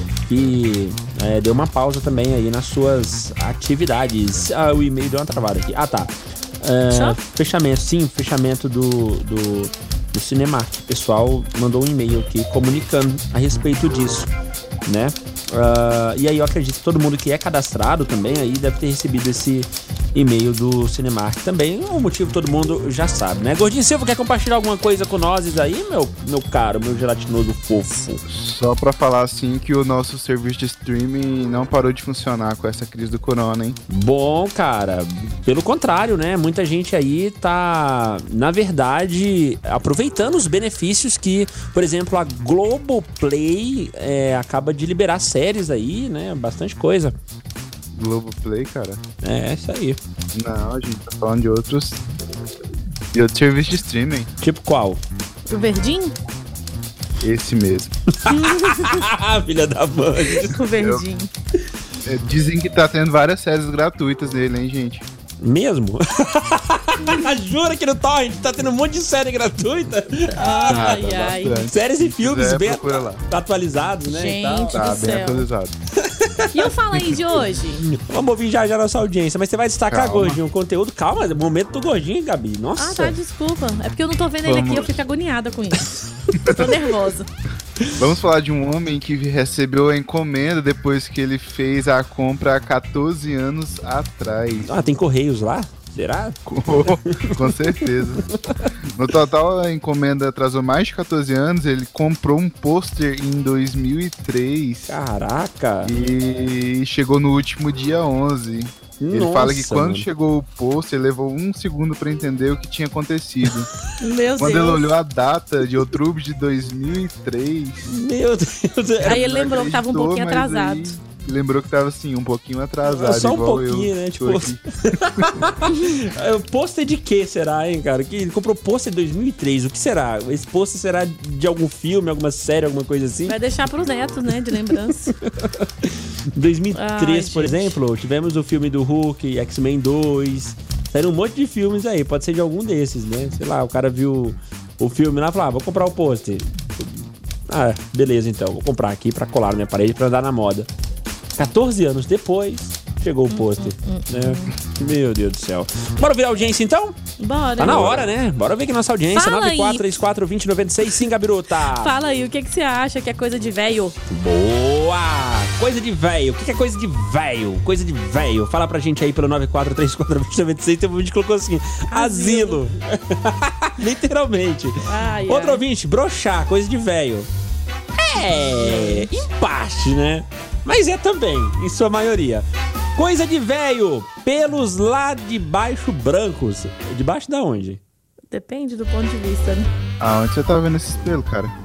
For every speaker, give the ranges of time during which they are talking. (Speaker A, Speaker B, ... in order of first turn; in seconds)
Speaker A: 0.3-6.1, 6.6-14.3, 14.8-28.2, 33.9-47.1, 49.2-50.0, 54.4-55.0, 58.2-60.6, 65.4-71.0, 71.7-74.8, 76.0-76.7, 77.8-83.2, 94.6-97.7, 104.9-105.9, 109.0-110.1, 117.9-119.2, 122.8-133.4, 135.1-150.7, 151.3-157.0, 157.6-161.9, 164.1-177.3, 178.0-187.8
Speaker B: 6.9-7.2, 55.5-56.1, 58.3-59.0, 60.4-61.3, 70.3-71.7, 74.1-75.5, 76.5-77.8, 82.8-86.0, 86.5-87.3, 114.0-114.8, 119.0-121.0, 133.3-135.1, 136.7-137.8, 153.3-154.5, 157.2-158.1, 159.1-159.8, 161.8-163.9, 171.9-172.6, 174.8-175.6, 178.6-179.1, 188.3-189.7
Speaker C: 28.3-33.8, 48.0-49.0, 50.3-52.0, 53.1-54.3, 57.2-57.9, 60.7-61.0, 62.0-65.1, 70.5-73.2, 74.7-75.7, 79.9-80.4, 84.4-84.9, 86.5-86.8, 88.0-94.8, 96.5-98.2, 98.9-105.0, 105.8-113.7, 114.4-117.9, 119.0-124.6, 190.0-191.5